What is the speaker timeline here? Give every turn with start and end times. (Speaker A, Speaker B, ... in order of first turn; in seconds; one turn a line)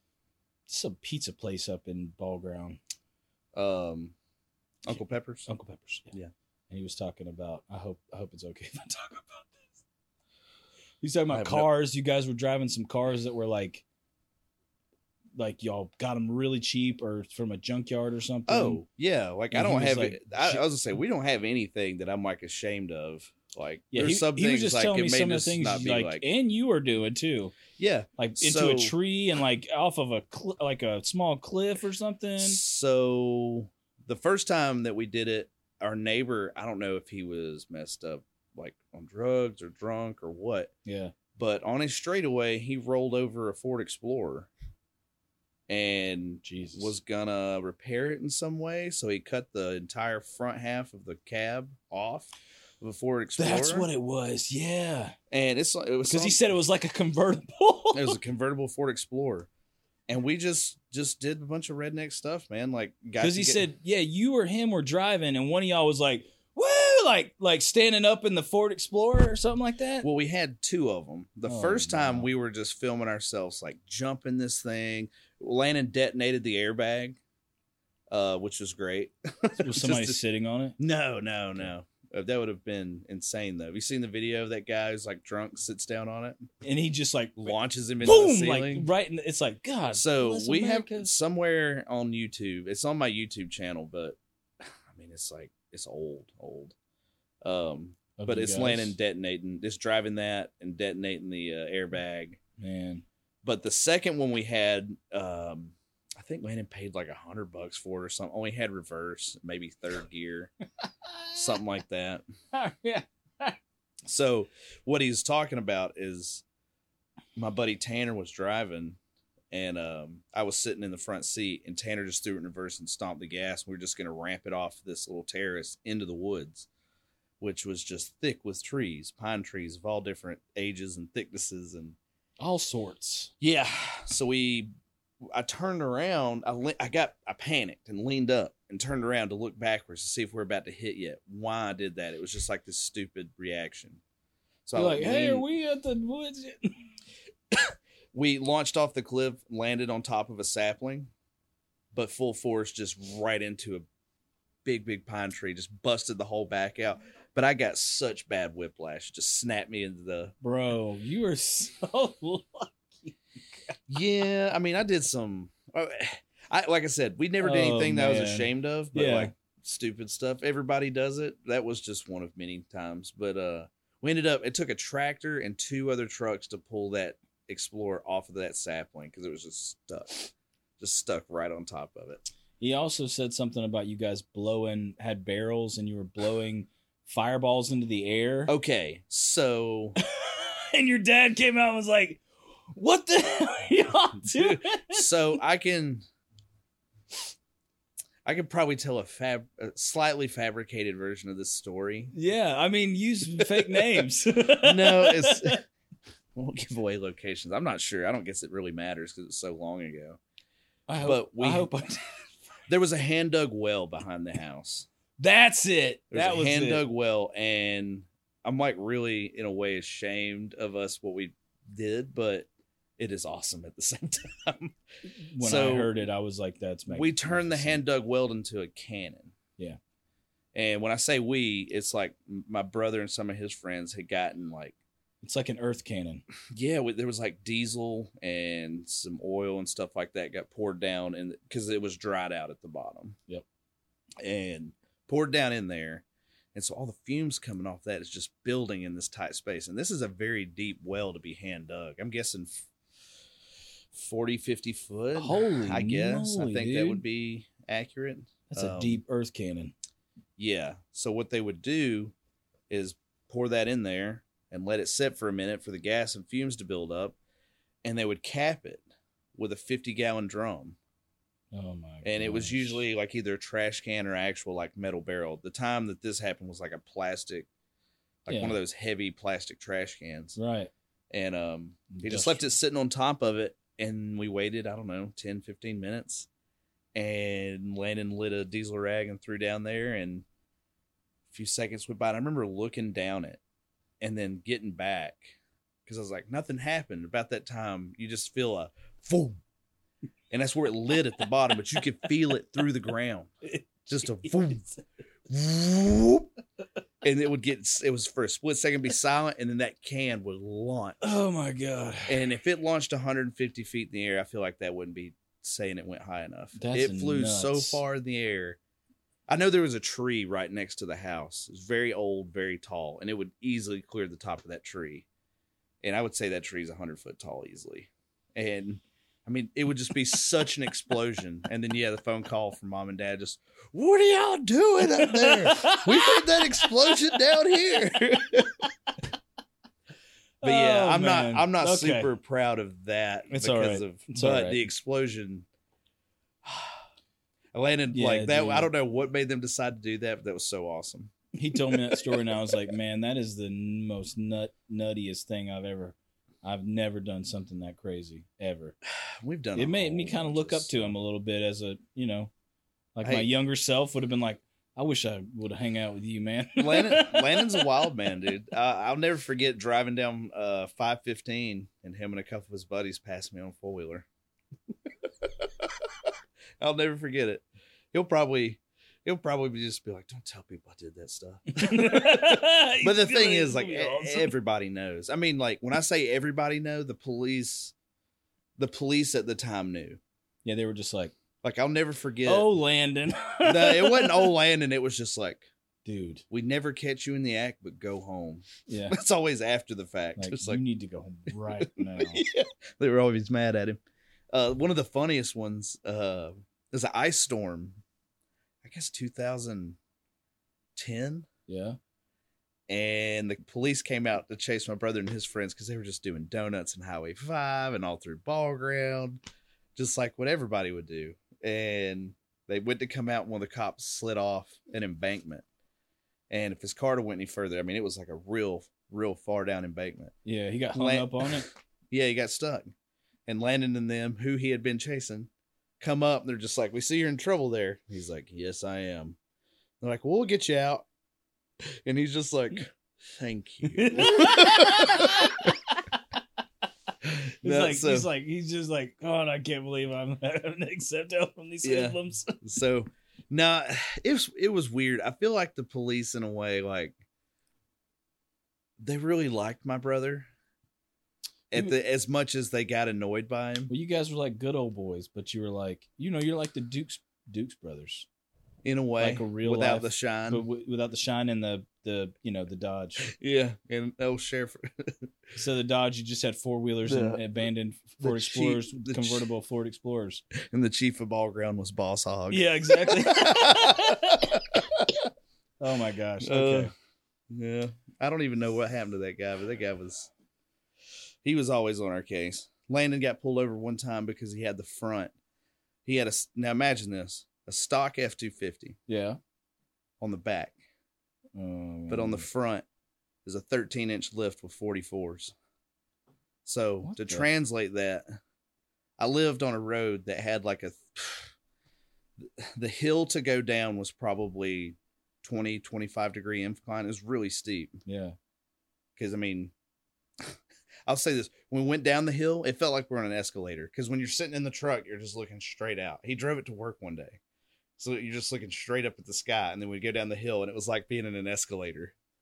Speaker A: 0.7-2.8
Speaker B: 3.5-4.1
Speaker B: 4.8-5.5
Speaker A: 5.5-6.1
Speaker A: 6.7-9.7
Speaker A: 11.0-13.8
Speaker B: 11.3-11.7
Speaker A: 15.3-18.8
Speaker B: 18.5-26.3
Speaker A: 19.5-20.6
Speaker A: 23.9-27.6
Speaker B: 27.8-28.9
Speaker A: 28.2-32.6
Speaker B: 32.4-40.7
Speaker A: 40.8-41.1
Speaker B: 41.4-44.5
Speaker B: 45.7-53.9
Speaker A: 46.4-46.9
Speaker A: 53.4-55.1
Speaker B: 55.3-56.4
Speaker A: 56.0-58.2
Speaker B: 57.9-59.5
Speaker B: 60.1-63.7
Speaker A: 63.2-70.1
Speaker B: 70.0-77.2
Speaker A: 71.4-72.3
Speaker B: 78.1-80.2
Speaker A: 79.6-80.8
Speaker B: 80.8-86.5
Speaker A: 86.6-91.1
Speaker B: 87.4-88.9
Speaker B: 89.9-96.7
Speaker B: 97.4-102.4
Speaker A: 98.2-99.0
Speaker A: 102.6-103.0
Speaker B: 103.4-110.5
Speaker A: 110.8-111.5
Speaker B: 111.3-112.2
Speaker A: 112.5-113.6
Speaker B: 114.0-116.4
Speaker B: 117.3-119.0
Speaker B: 119.5-126.7
Speaker B: 127.4-132.0
Speaker A: 132.4-133.3
Speaker B: 133.4-144.0
Speaker B: 144.6-145.4
Speaker A: 144.7-146.8
Speaker B: 147.5-151.1
Speaker B: 151.9-153.8
Speaker B: 154.6-160.3
Speaker A: 160.4-163.8
Speaker B: 163.9-182.2
Speaker A: 167.4-169.3
Speaker A: 182.6-188.5
Speaker B: 188.5-190.0
Speaker A: 190.0-195.1
Speaker B: 194.2-196.1
Speaker B: 198.2-202.1
Speaker A: 202.1-205.6
Speaker B: 203.3-204.0
Speaker B: 204.6-205.6
Speaker B: 206.3-210.2
Speaker A: 210.9-212.3
Speaker B: 211.0-211.7
Speaker B: 212.7-214.9
Speaker A: 215.2-216.8
Speaker B: 216.1-224.8
Speaker A: 225.0-227.8
Speaker B: 225.4-226.0
Speaker B: 226.9-229.3
Speaker B: 230.5-234.8
Speaker A: 235.2-236.2
Speaker B: 236.5-243.2
Speaker B: 244.2-252.7
Speaker B: 253.9-259.0
Speaker A: 255.1-257.0
Speaker A: 258.5-259.7
Speaker B: 260.4-262.1
Speaker B: 262.7-267.1
Speaker B: 267.8-270.8
Speaker A: 271.5-272.8
Speaker B: 272.0-277.5
Speaker B: 278.2-280.4
Speaker A: 278.3-278.6
Speaker A: 280.4-280.7
Speaker B: 281.1-286.3
Speaker A: 281.9-282.4
Speaker B: 286.9-290.2
Speaker B: 291.3-293.4
Speaker B: 294.0-299.4
Speaker B: 300.3-303.3
Speaker A: 303.5-304.6
Speaker B: 303.9-304.7
Speaker B: 305.3-306.3
Speaker B: 307.0-311.0
Speaker A: 311.0-312.3
Speaker B: 312.1-318.6
Speaker A: 316.6-317.8
Speaker B: 319.3-325.1
Speaker B: 325.8-338.6
Speaker A: 334.9-336.2
Speaker A: 340.4-342.1
Speaker B: 340.4-345.4
Speaker A: 343.3-344.6
Speaker B: 346.4-346.9
Speaker B: 347.5-352.6
Speaker A: 347.9-348.7
Speaker A: 351.3-358.7
Speaker B: 358.9-360.9
Speaker A: 359.5-362.3
Speaker A: 362.9-367.7
Speaker B: 363.0-363.3
Speaker B: 366.6-374.1
Speaker B: 375.2-387.7
Speaker A: 381.5-384.3
Speaker B: 388.6-390.0
Speaker A: 390.4-391.1
Speaker B: 391.4-392.5
Speaker A: 392.2-394.4
Speaker B: 393.4-395.5
Speaker A: 395.8-396.2
Speaker B: 396.3-400.6
Speaker A: 398.7-399.0
Speaker A: 400.1-402.2
Speaker B: 401.3-403.8
Speaker B: 404.3-407.8
Speaker B: 408.6-409.8
Speaker B: 410.8-411.3
Speaker A: 411.5-411.8
Speaker B: 412.7-419.2
Speaker B: 419.8-425.4
Speaker B: 426.3-430.1
Speaker A: 430.2-431.5
Speaker B: 430.7-432.7
Speaker B: 433.3-439.2
Speaker B: 439.8-440.9
Speaker B: 441.6-445.5
Speaker A: 443.7-445.8
Speaker B: 447.0-448.1
Speaker A: 447.4-452.4
Speaker B: 451.6-457.0
Speaker B: 458.8-460.3
Speaker B: 461.5-463.7
Speaker A: 463.7-468.1
Speaker B: 468.6-470.4
Speaker A: 469.0-473.1
Speaker B: 473.0-475.1
Speaker A: 475.4-480.2
Speaker B: 476.9-477.2
Speaker B: 478.0-479.3
Speaker B: 480.3-485.1
Speaker A: 482.3-484.4
Speaker A: 485.6-486.7
Speaker B: 486.2-486.7
Speaker B: 487.3-490.1
Speaker B: 491.2-495.1
Speaker B: 495.8-498.8
Speaker A: 498.9-499.2
Speaker B: 500.0-500.5
Speaker A: 501.3-502.3
Speaker B: 501.9-502.6
Speaker B: 503.2-505.3
Speaker B: 506.4-508.2
Speaker A: 506.8-507.3
Speaker B: 509.0-511.3
Speaker B: 512.2-517.8
Speaker A: 517.9-518.1
Speaker B: 519.0-519.5
Speaker B: 520.2-527.2
Speaker B: 527.8-531.9